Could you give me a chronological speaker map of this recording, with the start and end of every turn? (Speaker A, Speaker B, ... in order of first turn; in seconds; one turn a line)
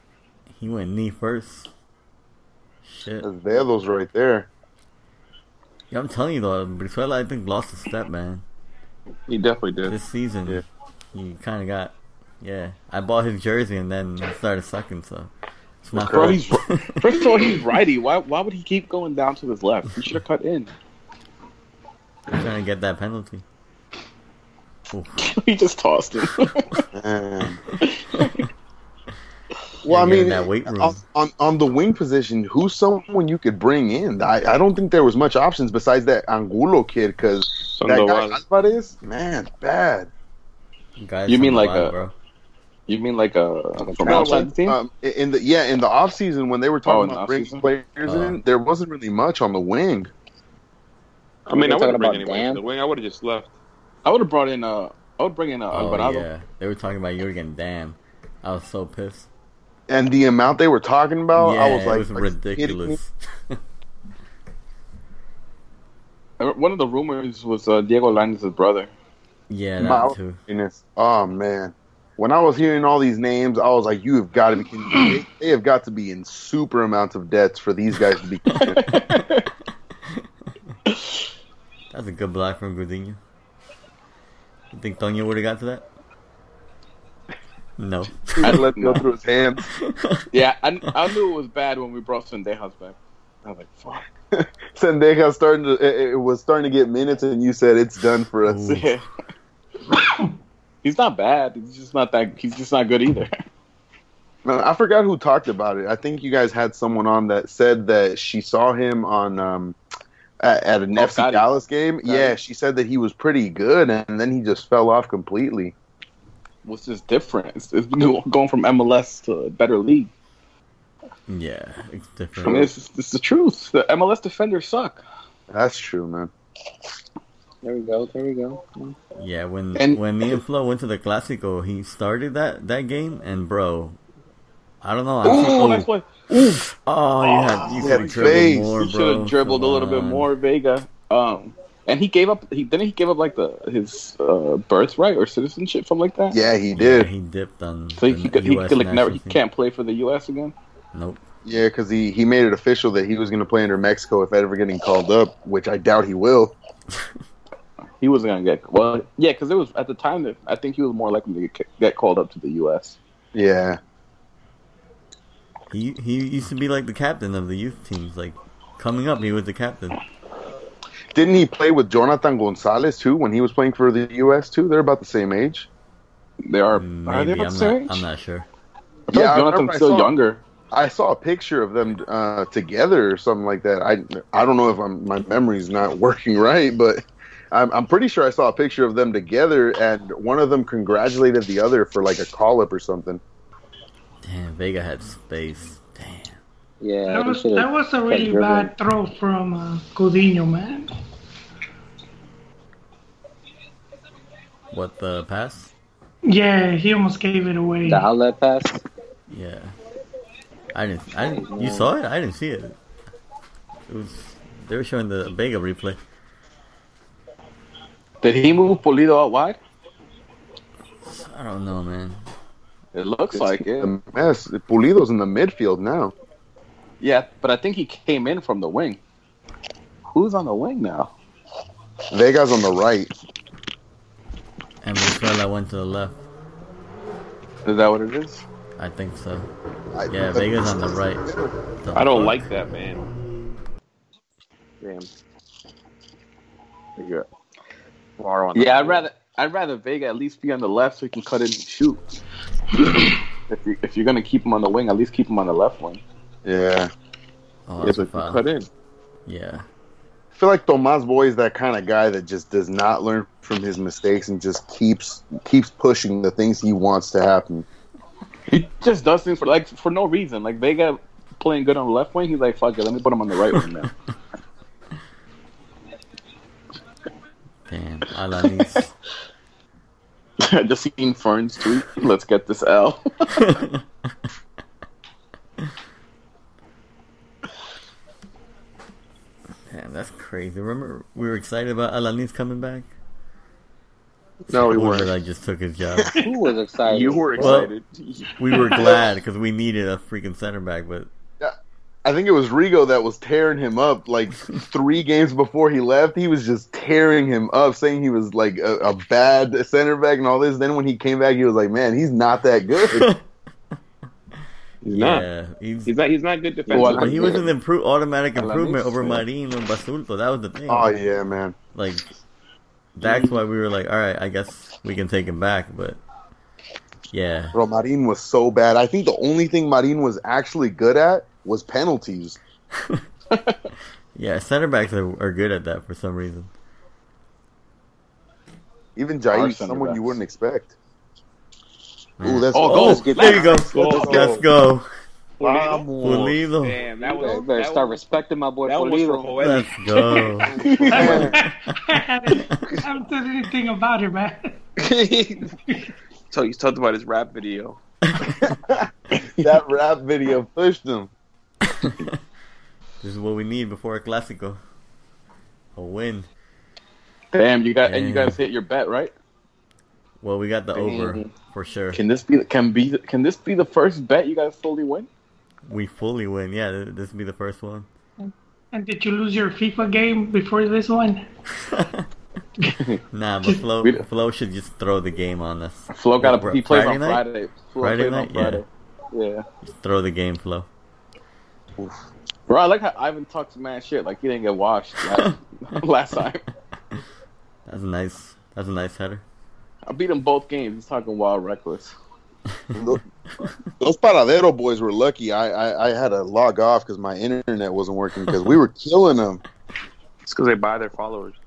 Speaker A: 0.5-1.7
Speaker A: 2.8-3.3
Speaker B: 3.2-4.5
Speaker A: 5.9-8.4
Speaker C: 9.3-9.9
Speaker A: 9.9-10.6
Speaker A: 11.1-15.3
Speaker A: 15.8-17.2
Speaker B: 15.9-16.4
Speaker D: 16.0-20.7
Speaker A: 22.3-23.4
Speaker A: 24.9-25.3
Speaker D: 25.2-26.8
Speaker B: 26.9-27.6
Speaker D: 27.8-28.4
Speaker B: 29.8-40.1
Speaker A: 29.9-31.0
Speaker C: 37.6-38.4
Speaker A: 41.0-42.1
Speaker D: 41.3-41.9
Speaker D: 42.9-44.8
Speaker E: 43.8-44.4
Speaker B: 44.0-50.1
Speaker D: 46.9-47.6
Speaker A: 48.0-48.4
Speaker C: 51.5-53.5
Speaker E: 51.5-52.6
Speaker D: 54.0-56.2
Speaker A: 55.7-59.3
Speaker B: 59.9-63.0
Speaker A: 61.3-63.6
Speaker D: 66.4-68.9
Speaker A: 69.5-70.4
Speaker B: 69.8-79.0
Speaker D: 78.7-79.5
Speaker D: 80.9-81.2
Speaker A: 81.9-83.2
Speaker A: 84.7-85.9
Speaker A: 87.8-88.6
Speaker B: 88.4-89.7
Speaker D: 88.4-89.0
Speaker A: 89.7-90.2
Speaker D: 90.3-94.0
Speaker B: 94.3-98.8
Speaker A: 98.4-98.9
Speaker D: 98.6-99.0
Speaker F: 99.9-100.3
Speaker D: 100.8-103.3
Speaker B: 104.4-109.8
Speaker B: 110.4-115.7
Speaker D: 110.9-111.4
Speaker D: 112.0-112.3
Speaker D: 116.6-120.1
Speaker A: 121.3-122.7
Speaker B: 122.4-122.7
Speaker D: 122.4-125.0
Speaker B: 125.5-126.3
Speaker E: 127.6-128.9
Speaker A: 129.2-134.0
Speaker D: 129.8-130.4
Speaker A: 134.8-135.9
Speaker D: 135.2-146.4
Speaker A: 136.8-140.3
Speaker B: 137.8-138.7
Speaker B: 146.3-147.1
Speaker A: 146.7-149.4
Speaker D: 148.0-150.5
Speaker A: 150.9-151.2
Speaker B: 151.4-156.6
Speaker D: 158.0-163.0
Speaker B: 163.3-163.8
Speaker A: 165.7-170.0
Speaker B: 171.1-175.7
Speaker D: 176.4-178.0
Speaker A: 176.7-178.5
Speaker D: 179.1-180.4
Speaker B: 179.1-180.1
Speaker B: 180.7-193.2
Speaker A: 194.2-196.4
Speaker E: 196.8-198.7
Speaker F: 197.1-200.9
Speaker A: 204.7-205.7
Speaker F: 206.2-208.1
Speaker E: 207.8-208.8
Speaker A: 209.3-209.7
Speaker A: 210.7-212.8
Speaker E: 211.2-211.9
Speaker A: 213.9-216.0
Speaker D: 218.2-219.6
Speaker A: 221.0-222.2
Speaker D: 222.9-223.9
Speaker B: 223.3-226.1
Speaker D: 227.0-229.0
Speaker D: 230.1-231.1
Speaker B: 232.1-233.1
Speaker A: 234.8-236.2
Speaker D: 237.6-238.4
Speaker A: 238.8-239.5
Speaker B: 239.9-241.5
Speaker A: 240.1-241.3
Speaker A: 241.8-242.4
Speaker C: 241.9-243.1
Speaker C: 244.8-245.1
Speaker D: 247.0-247.2
Speaker C: 248.2-249.1
Speaker D: 248.5-252.0
Speaker D: 252.7-256.0
Speaker B: 256.4-256.9
Speaker A: 257.7-258.4
Speaker C: 257.8-258.7
Speaker A: 259.2-259.6
Speaker B: 260.4-267.6
Speaker D: 268.5-273.9
Speaker A: 277.7-278.9
Speaker D: 280.4-283.6
Speaker A: 283.3-284.1
Speaker A: 289.7-292.9
Speaker C: 294.5-295.1
Speaker A: 294.5-296.1
Speaker E: 296.2-297.7
Speaker C: 296.8-298.4
Speaker A: 297.4-297.7
Speaker A: 298.4-301.1
Speaker F: 298.5-298.8
Speaker B: 298.7-299.0
Speaker B: 302.0-313.1
Speaker A: 312.8-313.2
Speaker C: 314.8-315.3
Speaker A: 314.9-315.9
Speaker C: 315.9-317.4
Speaker D: 316.7-317.4
Speaker A: 316.8-320.9
Speaker D: 318.4-319.2
Speaker B: 320.7-321.6
Speaker A: 321.7-322.1
Speaker A: 322.9-326.0
Speaker D: 323.0-323.4
Speaker A: 327.1-327.6
Speaker B: 327.5-332.4
Speaker D: 333.3-333.6
Speaker A: 334.1-336.5
Speaker B: 338.9-340.7
Speaker D: 339.3-340.2
Speaker A: 342.2-344.9
Speaker B: 342.2-344.4
Speaker D: 342.5-343.4
Speaker E: 342.7-344.2
Speaker C: 343.7-344.2
Speaker C: 345.4-351.1
Speaker B: 345.4-346.3
Speaker A: 346.0-346.8
Speaker E: 347.0-349.4
Speaker A: 349.4-350.5
Speaker D: 350.5-351.2
Speaker F: 350.9-354.6
Speaker B: 350.9-351.4
Speaker C: 354.8-355.5
Speaker C: 356.3-357.8
Speaker B: 358.4-358.9
Speaker D: 359.1-359.6
Speaker B: 359.4-361.1
Speaker A: 361.7-362.1
Speaker A: 363.0-364.6
Speaker A: 365.8-366.3
Speaker D: 367.3-369.1
Speaker A: 367.8-368.4
Speaker A: 370.2-372.0
Speaker E: 370.7-371.3
Speaker D: 371.9-375.1
Speaker A: 375.7-377.9
Speaker F: 378.2-381.2
Speaker A: 381.5-382.1
Speaker A: 383.1-387.2
Speaker D: 385.9-389.4
Speaker A: 387.8-388.6
Speaker A: 389.6-390.7
Speaker D: 392.5-396.4
Speaker A: 397.6-399.2
Speaker D: 399.9-401.9
Speaker B: 402.7-403.0
Speaker B: 403.8-409.4
Speaker A: 408.2-408.6
Speaker C: 410.2-411.4